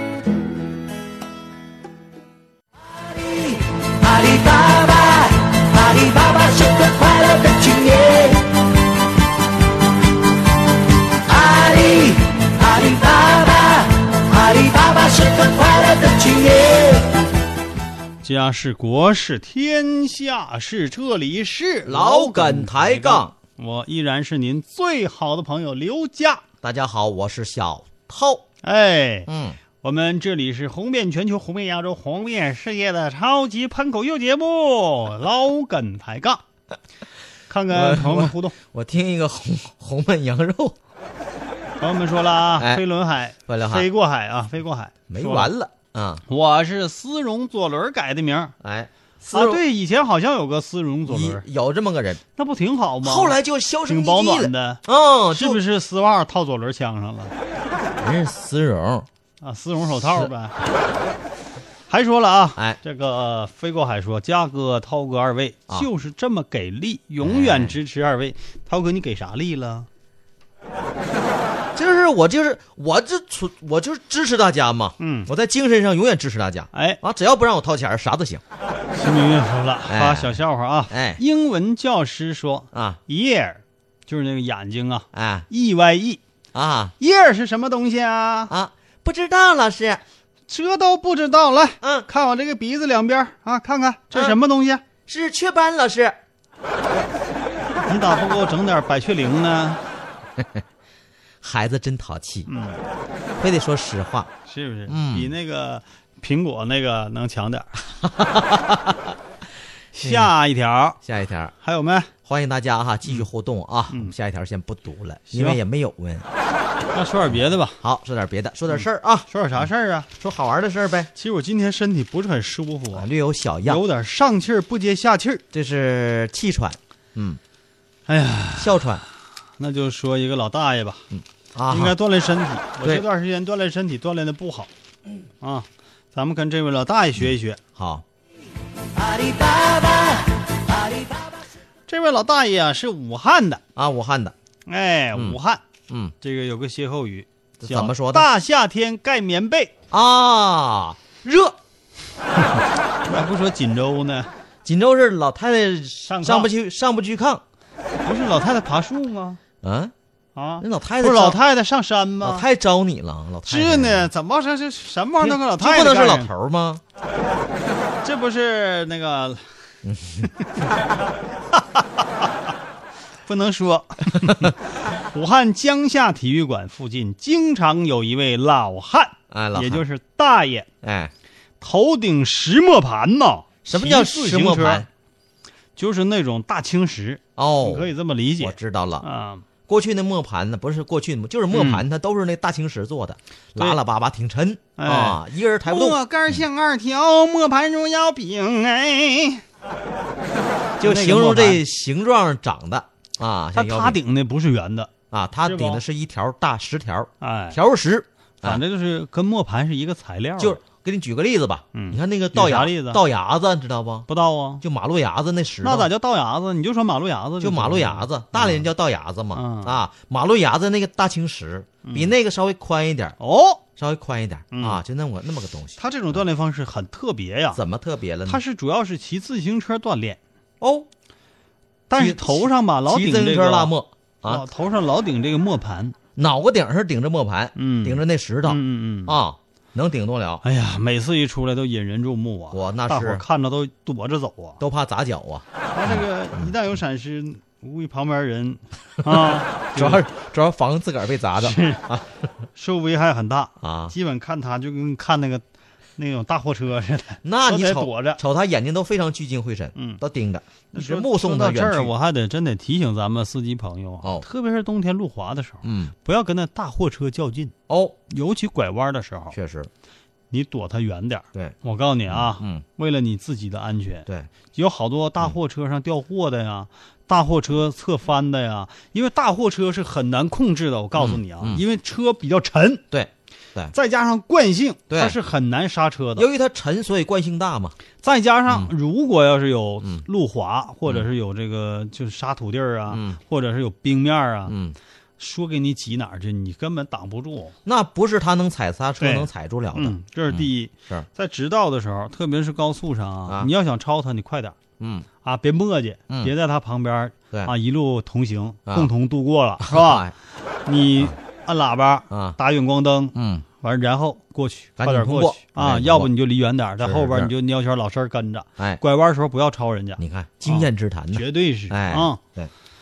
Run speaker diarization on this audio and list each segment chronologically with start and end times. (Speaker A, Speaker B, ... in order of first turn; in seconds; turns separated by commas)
Speaker A: 3.0-8.5, Speaker A: 11.3-17.1, Speaker B: 18.2-26.4, Speaker C: 21.9-23.4, Speaker C: 26.6-28.5, Speaker B: 28.6-29.3, Speaker C: 29.3-29.6, Speaker B: 29.8-36.4, Speaker B: 37.5-38.6, Speaker C: 37.7-40.8, Speaker B: 41.8-45.5, Speaker C: 42.6-42.9, Speaker C: 43.5-43.9, Speaker C: 45.1-46.2, Speaker B: 46.3-48.5, Speaker C: 48.6-49.6, Speaker B: 49.2-51.5, Speaker C: 51.1-52.2, Speaker B: 52.4-57.3, Speaker C: 53.0-55.6, Speaker C: 58.0-59.1, Speaker B: 59.4-60.6, Speaker C: 60.0-60.3, Speaker B: 61.9-69.9, Speaker C: 67.2-67.8, Speaker C: 71.8-78.4, Speaker B: 75.0-75.3, Speaker B: 76.7-77.0, Speaker B: 79.0-86.2, Speaker C: 79.9-81.2, Speaker C: 82.7-83.0, Speaker C: 85.1-85.5, Speaker C: 86.5-86.9, Speaker B: 87.0-88.5, Speaker C: 88.5-90.0, Speaker B: 90.5-94.8, Speaker C: 91.8-92.1, Speaker C: 94.1-94.4, Speaker C: 95.1-96.2, Speaker B: 97.9-99.8, Speaker C: 100.4-100.6, Speaker C: 101.4-102.5, Speaker B: 102.5-102.8, Speaker C: 103.4-104.3, Speaker B: 104.5-107.8, Speaker C: 104.9-105.3, Speaker C: 108.0-109.2, Speaker B: 110.0-111.0, Speaker C: 110.0-110.3, Speaker C: 111.0-111.5, Speaker B: 111.6-112.1, Speaker C: 112.2-116.3, Speaker B: 115.3-115.6, Speaker B: 116.9-117.8, Speaker C: 117.8-121.1, Speaker B: 119.3-120.1, Speaker B: 121.2-123.1, Speaker C: 122.9-123.8, Speaker B: 123.7-125.4, Speaker C: 125.5-127.4, Speaker B: 128.1-128.8, Speaker C: 128.6-129.0, Speaker B: 129.6-131.1, Speaker C: 131.1-131.9, Speaker B: 131.7-134.7, Speaker C: 132.8-133.1, Speaker B: 135.4-137.6, Speaker C: 137.8-138.1, Speaker A: 139.0-141.3, Speaker B: 141.9-143.6, Speaker C: 143.8-144.3, Speaker B: 144.7-145.6, Speaker C: 145.1-146.1, Speaker B: 146.2-149.7, Speaker C: 147.6-148.3, Speaker C: 149.9-151.6, Speaker B: 153.1-154.3, Speaker C: 154.7-157.4, Speaker B: 156.1-156.5, Speaker B: 158.1-159.4, Speaker C: 159.6-159.9, Speaker B: 160.4-162.4, Speaker C: 160.6-161.4, Speaker C: 162.2-164.1, Speaker B: 163.5-166.3, Speaker C: 165.2-166.8, Speaker B: 168.0-169.4, Speaker C: 169.8-170.6, Speaker B: 171.6-171.8, Speaker B: 173.3-174.6, Speaker B: 175.1-180.7, Speaker C: 179.3-179.8, Speaker C: 180.8-181.1, Speaker B: 181.6-184.9, Speaker C: 183.7-184.9, Speaker B: 185.8-189.4, Speaker C: 187.4-189.1, Speaker C: 189.7-196.4, Speaker B: 191.5-191.8, Speaker B: 194.8-199.4, Speaker C: 200.8-204.0, Speaker B: 200.8-201.6, Speaker B: 203.6-204.9, Speaker C: 205.1-208.6, Speaker B: 205.4-205.8, Speaker B: 207.2-207.6, Speaker B: 208.4-210.6, Speaker C: 210.4-214.1, Speaker B: 211.7-213.0, Speaker B: 214.1-214.6, Speaker C: 214.6-215.9, Speaker B: 215.6-218.7, Speaker C: 217.4-223.2, Speaker B: 219.3-219.8, Speaker B: 221.8-222.1, Speaker B: 223.2-223.6, Speaker C: 223.8-226.2, Speaker B: 224.5-224.8, Speaker B: 225.8-227.6, Speaker C: 227.5-228.4, Speaker B: 228.3-230.2, Speaker C: 230.6-230.9, Speaker B: 231.9-233.7, Speaker C: 231.9-234.5, Speaker B: 234.3-236.0, Speaker C: 236.2-240.4, Speaker B: 237.6-239.2, Speaker B: 240.4-244.6, Speaker C: 242.5-243.2, Speaker C: 244.6-246.5, Speaker B: 245.7-250.0, Speaker C: 249.1-252.1, Speaker B: 251.4-251.8, Speaker B: 252.6-255.4, Speaker C: 253.6-253.9, Speaker B: 256.0-258.2, Speaker C: 257.2-261.9, Speaker B: 259.8-260.0, Speaker B: 260.7-267.5, Speaker C: 265.6-265.9, Speaker C: 267.7-268.0, Speaker B: 268.1-269.4, Speaker C: 269.3-269.7, Speaker B: 270.3-282.9, Speaker C: 272.1-272.6, Speaker C: 281.0-281.6, Speaker C: 282.9-283.7, Speaker B: 283.7-286.3, Speaker C: 284.9-285.2, Speaker C: 286.2-287.8, Speaker B: 288.0-294.5, Speaker C: 292.9-293.2, Speaker C: 294.5-294.8, Speaker B: 295.2-297.6, Speaker C: 297.6-301.1, Speaker B: 299.0-304.6, Speaker C: 304.8-305.1, Speaker B: 305.2-310.0, Speaker C: 309.6-310.1, Speaker B: 310.7-322.2, Speaker C: 312.1-312.4, Speaker C: 313.1-313.4, Speaker C: 314.8-316.1, Speaker C: 316.8-317.3, Speaker C: 320.0-322.5